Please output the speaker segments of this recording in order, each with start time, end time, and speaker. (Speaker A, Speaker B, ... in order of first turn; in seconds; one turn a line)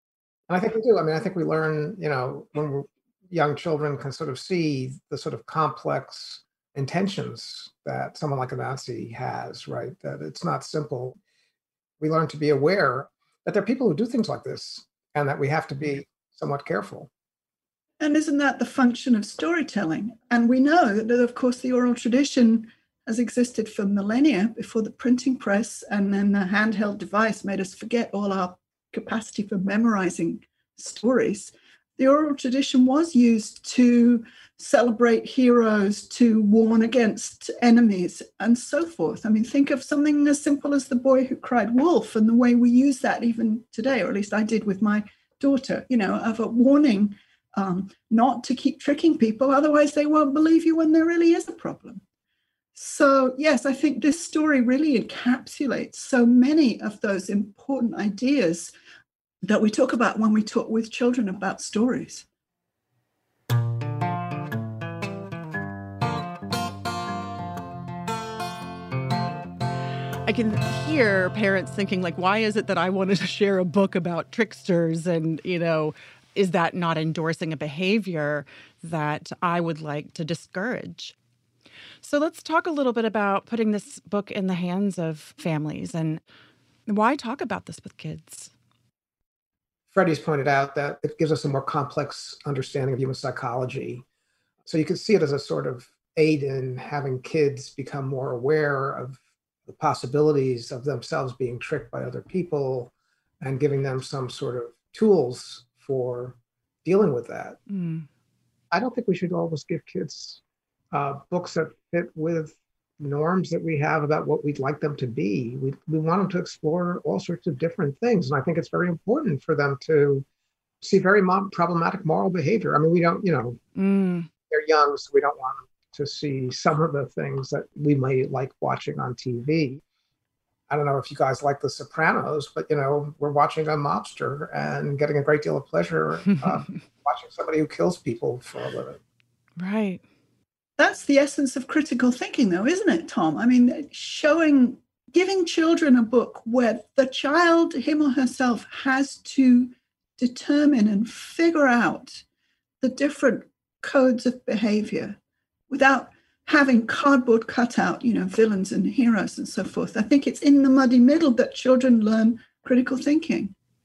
Speaker A: 0.5-11.2
Speaker A: 12.0-17.1
Speaker B: 18.0-52.0
Speaker B: 52.7-58.7
Speaker B: 59.4-62.2
Speaker C: 70.2-81.2
Speaker C: 82.0-86.2
Speaker C: 86.9-88.5
Speaker A: 89.9-94.0
Speaker A: 94.7-107.6
Speaker C: 107.7-108.1
Speaker A: 108.7-120.2
Speaker A: 120.8-123.6
Speaker C: 123.8-124.3
Speaker A: 124.5-129.8
Speaker A: 130.7-139.0
Speaker C: 139.6-140.0
Speaker B: 140.8-152.2
Speaker B: 152.8-155.2
Speaker B: 155.7-163.5